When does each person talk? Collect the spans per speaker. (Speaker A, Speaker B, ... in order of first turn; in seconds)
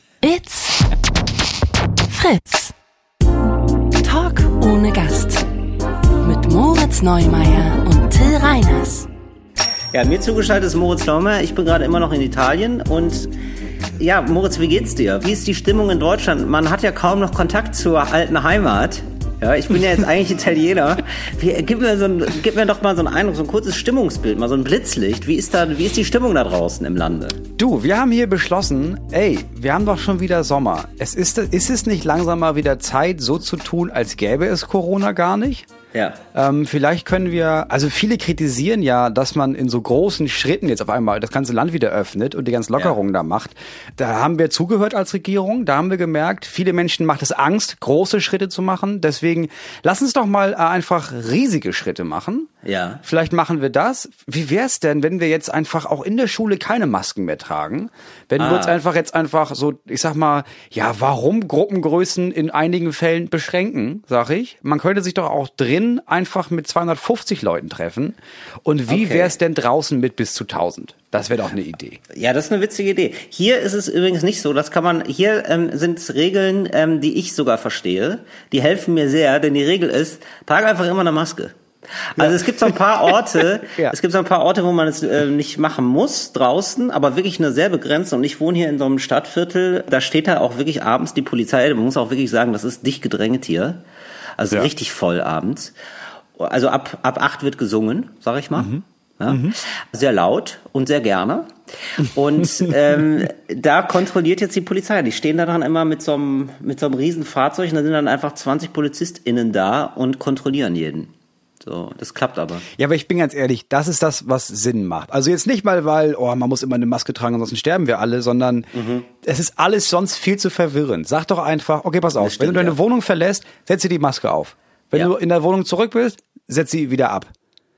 Speaker A: 0.2-0.8, 2.1-2.7, 4.0-5.5, 6.2-9.1
Speaker B: 9.9-13.3, 14.0-27.4, 35.9-36.2, 52.6-53.0, 58.4-58.8, 68.9-69.3, 72.1-93.8, 94.4-95.7, 96.4-112.7, 118.7-119.0, 122.2-122.8
Speaker C: 27.6-35.7, 36.3-52.5, 53.0-72.0, 82.2-82.8, 98.6-99.5, 112.8-118.7, 119.2-127.3